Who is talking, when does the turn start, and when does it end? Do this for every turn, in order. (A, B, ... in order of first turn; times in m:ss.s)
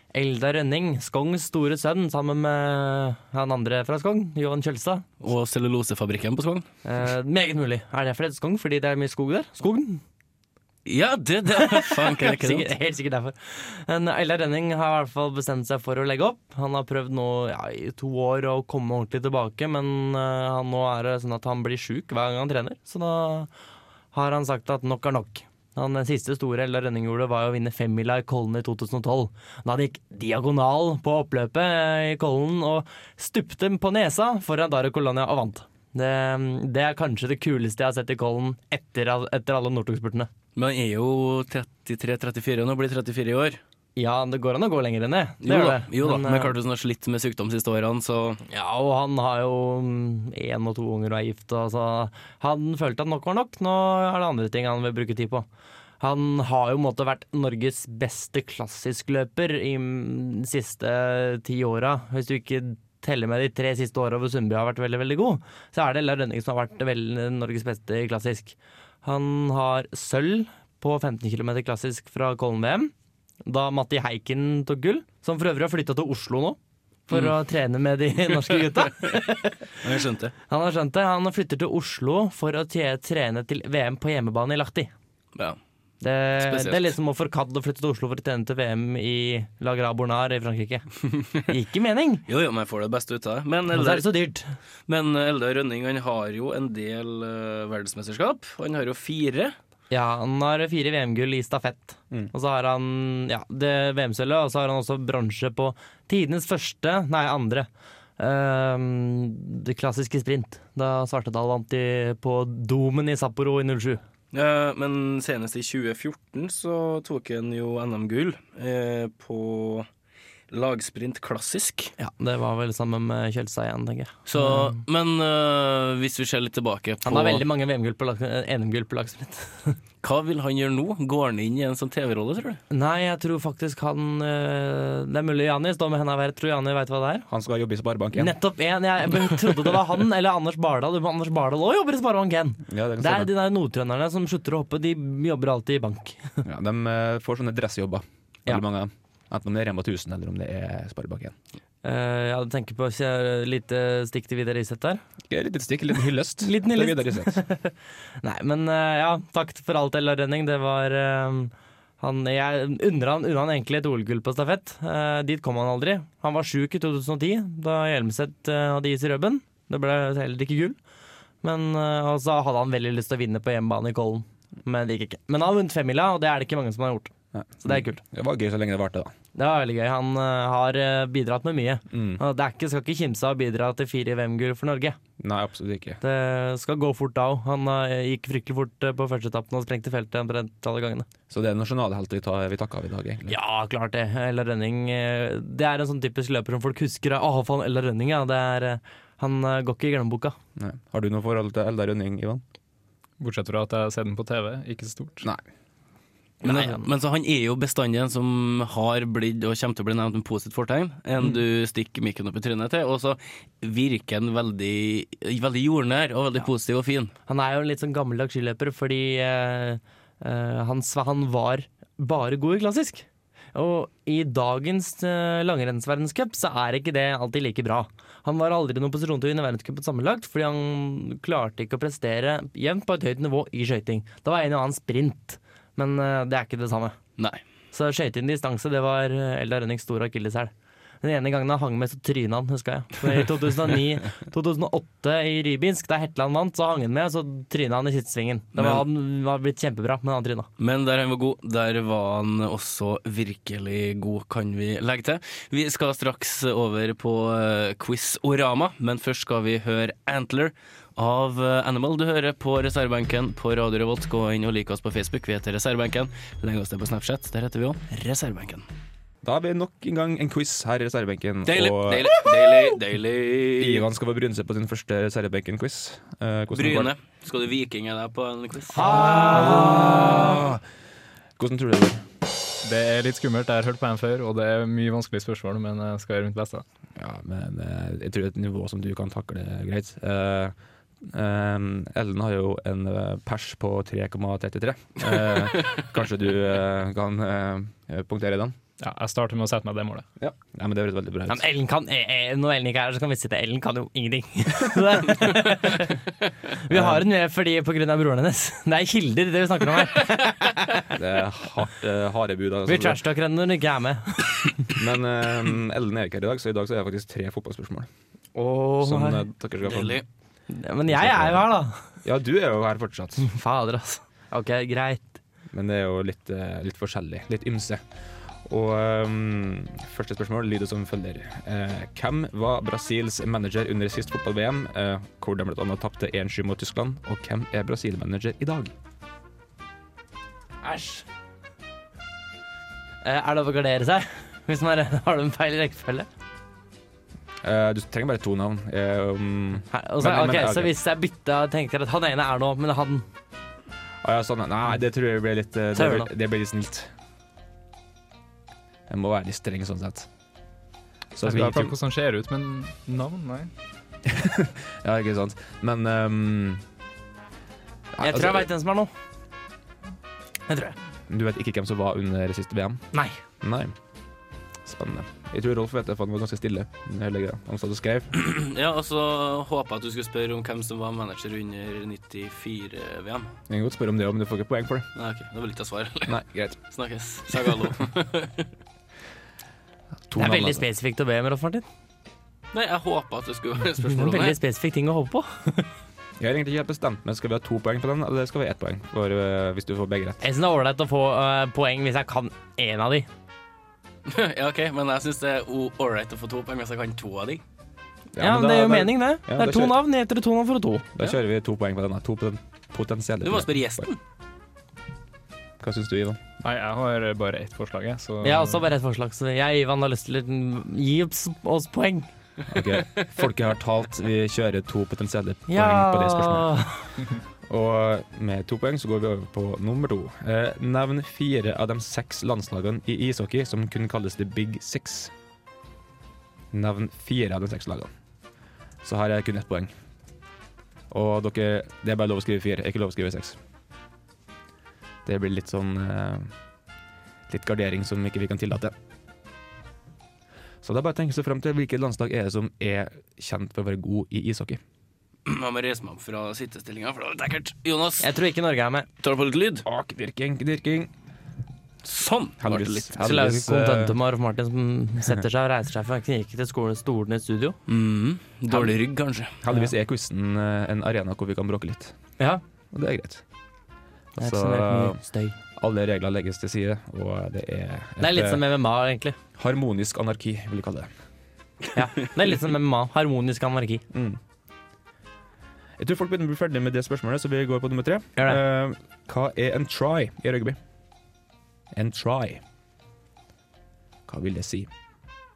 0:00.1-0:05.0 A
0:05.2-0:06.7 B
0:06.8-0:10.0 A
0:10.8-0:12.7 B
0:11.5-0:23.5 A
0:24.1-0:40.3 A
0:40.6-0:43.6 B
0:44.0-0:46.6 A
0:45.4-0:48.4 B
0:48.5-0:55.4 A
0:56.0-1:12.9 A
1:13.4-1:19.8 A
1:19.8-1:20.3 B
1:20.5-1:24.9 A
1:26.0-1:32.2 A
1:26.4-1:26.9 B
1:32.3-1:34.1 B
1:33.7-1:34.5 A
1:34.9-1:39.6 B
1:39.9-1:47.7 A
1:48.2-1:54.0 A
1:54.3-1:59.9 B
2:00.5-2:01.9 B
2:02.0-2:04.7 A
2:04.2-2:07.4 B
2:07.0-2:09.8 A
2:10.0-2:12.6 B
2:12.7-2:17.3 A
2:17.3-2:18.3 C
2:18.1-2:26.4 A
2:22.7-2:23.3 C
2:26.4-2:31.3 C
2:31.8-2:35.0 A
2:35.3-2:37.4 C
2:36.4-2:50.8 A
2:51.4-2:58.0 A
2:57.3-2:59.1 C
2:59.4-3:05.0 A
3:01.9-3:02.2 C
3:05.2-3:06.0 C
3:06.0-3:11.0 A
3:11.3-3:13.3 C
3:13.3-3:20.4 A
3:20.6-3:22.4 C
3:23.2-3:25.2 D
3:26.4-3:26.8 A
3:26.4-3:37.1 B
3:37.3-3:57.0 A
3:57.7-4:00.5 A
4:01.0-4:10.5 A
4:08.6-4:08.8 B
4:10.6-4:28.6 B
4:29.2-4:32.1 C
4:31.4-4:33.8 B
4:33.6-4:36.9 C
4:36.5-4:40.4 B
4:38.7-4:40.0 A
4:39.2-4:40.6 C
4:41.4-4:42.0 C
4:42.6-4:46.6 D
4:47.0-4:58.6 C
4:58.8-5:00.0 D
5:00.2-5:01.4 C
5:01.3-5:06.0 A
5:06.5-5:10.9 A
5:06.7-5:07.0 C
5:10.9-5:13.0 C
5:12.6-5:14.6 A
5:14.7-5:17.9 C
5:18.3-5:19.2 A
5:18.8-5:20.0 C
5:19.6-5:20.0 B
5:20.5-5:21.8 A
5:20.9-5:21.5 C
5:22.0-5:23.2 C
5:23.2-5:25.2 A
5:25.5-5:27.8 C
5:28.4-5:38.7 C
5:40.6-5:41.0 A
5:43.0-5:46.1 A
5:47.4-5:50.7 C
5:49.7-5:53.0 A
5:54.0-5:56.9 C
5:55.7-5:56.1 A
5:58.9-6:00.1 C
6:01.2-6:01.7 C
6:01.2-6:03.5 D
6:04.0-6:06.6 C
6:07.9-6:08.5 C
6:08.0-6:08.9 A
6:10.5-6:10.7 A
6:11.1-6:12.8 C
6:13.4-6:13.8 C
6:14.6-6:18.1 C
6:18.1-6:23.3 B
6:23.5-6:24.9 C
6:25.0-6:26.2 B
6:26.0-6:26.6 C
6:26.7-6:28.5 B
6:30.1-6:30.6 C
6:30.2-6:31.6 A
6:32.5-6:34.4 B
6:33.9-6:35.7 A
6:36.2-6:40.2 C
6:40.2-6:43.1 A
6:44.1-6:47.4 B
6:48.1-6:49.8 C
6:48.2-6:50.9 A
6:51.0-6:53.9 C
6:53.2-6:54.0 B
6:55.6-6:56.2 C
6:56.4-6:58.7 D
6:58.2-7:02.1 A
7:02.5-7:06.6 C
7:05.5-7:06.9 A
7:07.4-7:15.1 C
7:16.5-7:17.9 C
7:18.8-7:19.7 C
7:20.9-7:23.4 C
7:25.0-7:26.3 C
7:27.3-7:28.7 C
7:30.6-7:34.6 C
7:35.2-7:38.0 B
7:38.0-7:38.9 A
7:39.0-7:39.6 B
7:39.6-7:40.9 C
7:41.8-7:43.0 B
7:42.4-7:44.0 C
7:43.0-7:47.6 A
7:47.7-7:49.3 B
7:49.4-7:51.9 C
7:52.7-7:53.2 C
7:54.2-7:55.0 C
7:54.2-7:55.4 A
7:55.6-7:58.4 C
7:58.0-7:59.2 A
7:59.4-8:00.9 C
8:01.7-8:03.8 A
8:03.9-8:04.2 C
8:05.8-8:10.6 C
8:11.7-8:12.4 C
8:14.1-8:14.7 C